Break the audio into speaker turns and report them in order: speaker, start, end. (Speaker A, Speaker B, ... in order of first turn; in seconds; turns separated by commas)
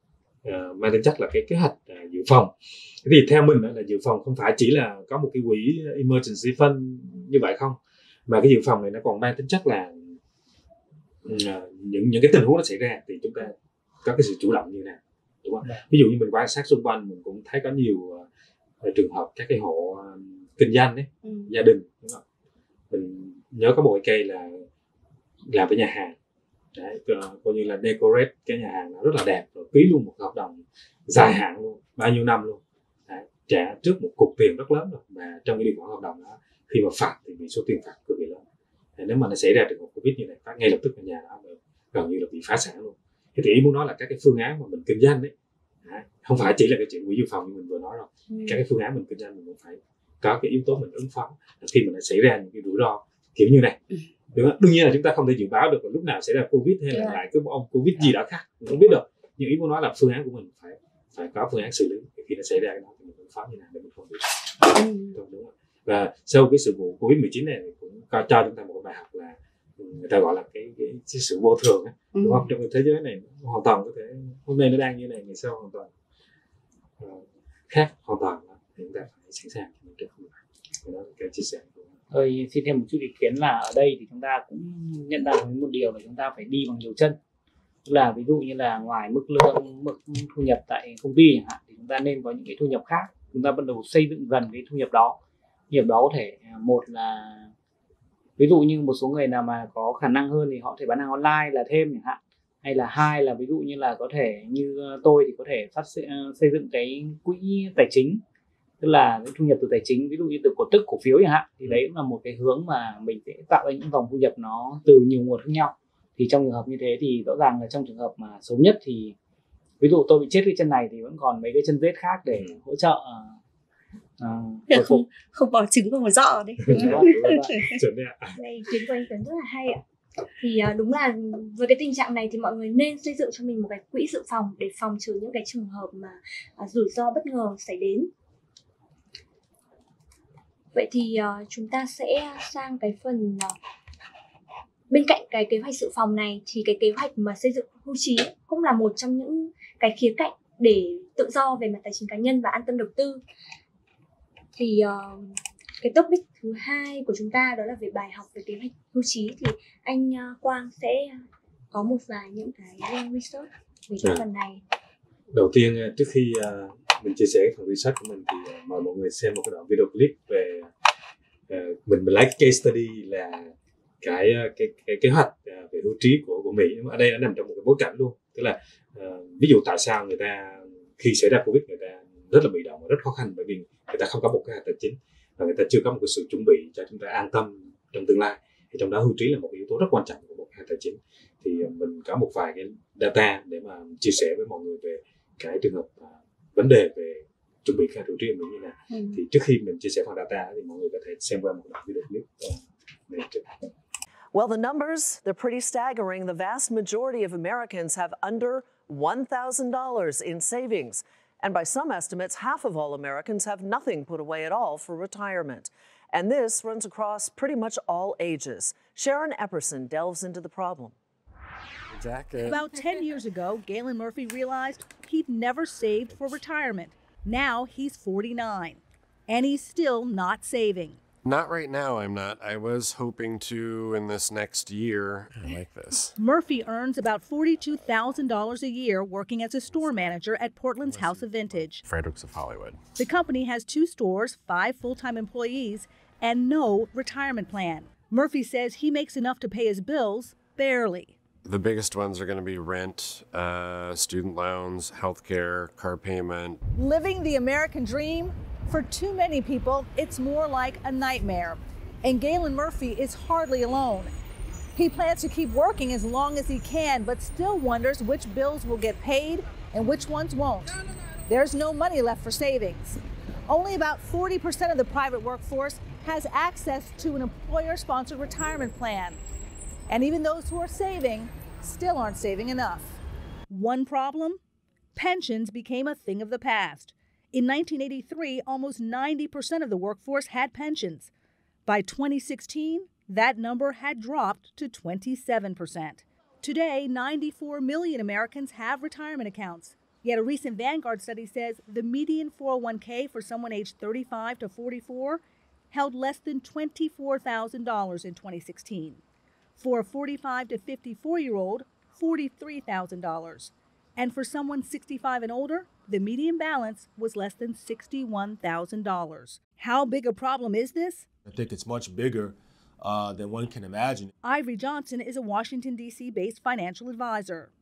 Speaker A: 0.4-2.5, Speaker A: 3.0-10.2, Speaker A: 11.2-18.3, Speaker A: 18.8-22.2, Speaker B: 21.2-21.5, Speaker A: 22.9-24.6, Speaker A: 25.5-26.1, Speaker A: 26.7-38.4, Speaker A: 39.0-45.3, Speaker A: 45.8-53.8, Speaker B: 48.3-48.6, Speaker A: 54.3-75.9, Speaker B: 56.9-57.2, Speaker B: 64.7-65.2, Speaker B: 72.1-72.5, Speaker A: 77.0-81.9, Speaker C: 82.1-87.2, Speaker C: 87.8-95.2, Speaker C: 95.7-97.5, Speaker C: 98.4-108.2, Speaker C: 108.8-119.1, Speaker C: 119.8-123.3, Speaker C: 124.2-125.0, Speaker B: 124.7-127.8, Speaker A: 126.7-128.4, Speaker C: 126.7-127.5, Speaker D: 128.4-129.8, Speaker D: 130.4-138.1, Speaker D: 140.7-143.5, Speaker D: 144.9-153.2, Speaker D: 154.5-164.6, Speaker A: 165.3-170.7, Speaker A: 171.5-203.5, Speaker B: 198.9-199.2, Speaker E: 204.3-220.9, Speaker F: 221.9-222.8, Speaker G: 222.4-231.0, Speaker F: 231.2-236.1, Speaker G: 236.2-241.8, Speaker F: 240.8-242.9, Speaker G: 242.9-251.2, Speaker F: 251.4-256.6, Speaker G: 256.7-264.1, Speaker G: 264.7-279.2, Speaker G: 279.9-283.0, Speaker G: 283.5-284.4, Speaker G: 284.9-291.1, Speaker G: 291.6-309.0, Speaker G: 309.6-321.1, Speaker H: 321.2-324.1, Speaker G: 324.2-327.5